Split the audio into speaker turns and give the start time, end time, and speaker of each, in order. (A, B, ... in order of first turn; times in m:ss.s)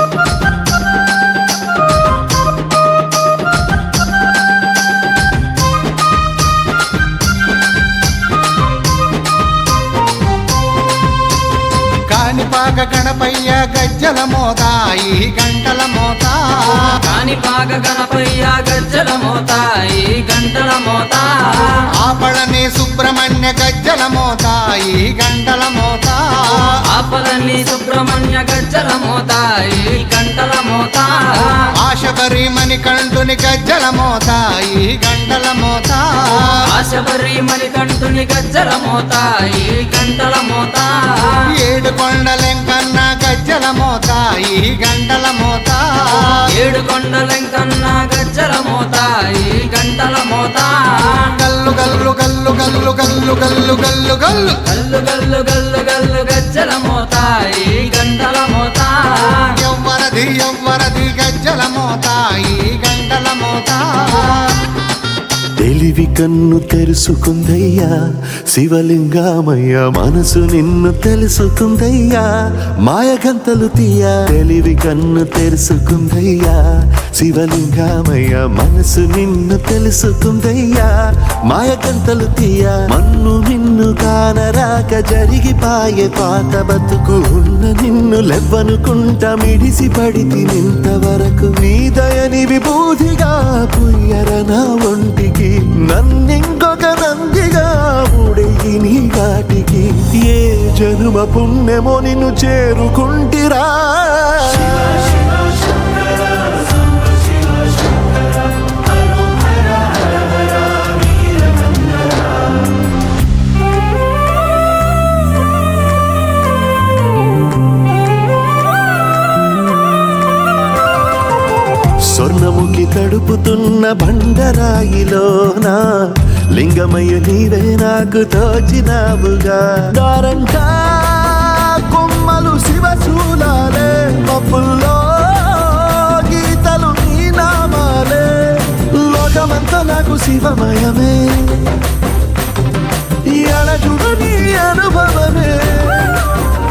0:12.1-0:17.0 A
0:17.0-0:21.8 B
0:22.0-0:26.8 A
0:26.9-0:31.6 B
0:31.8-0:36.6 A
0:36.7-0:41.4 B
0:41.6-0:46.4 A
0:46.5-0:51.2 B
0:51.3-0:54.6 A
0:54.7-0:59.5 B
0:59.6-1:04.6 A
1:05.6-1:07.9 C
1:08.5-1:12.3 C
1:12.8-1:16.6 C
1:17.2-1:20.9 C
1:21.5-1:45.2 C
2:02.1-2:05.8 C
2:06.6-2:21.6 C
2:23.3-2:26.2 C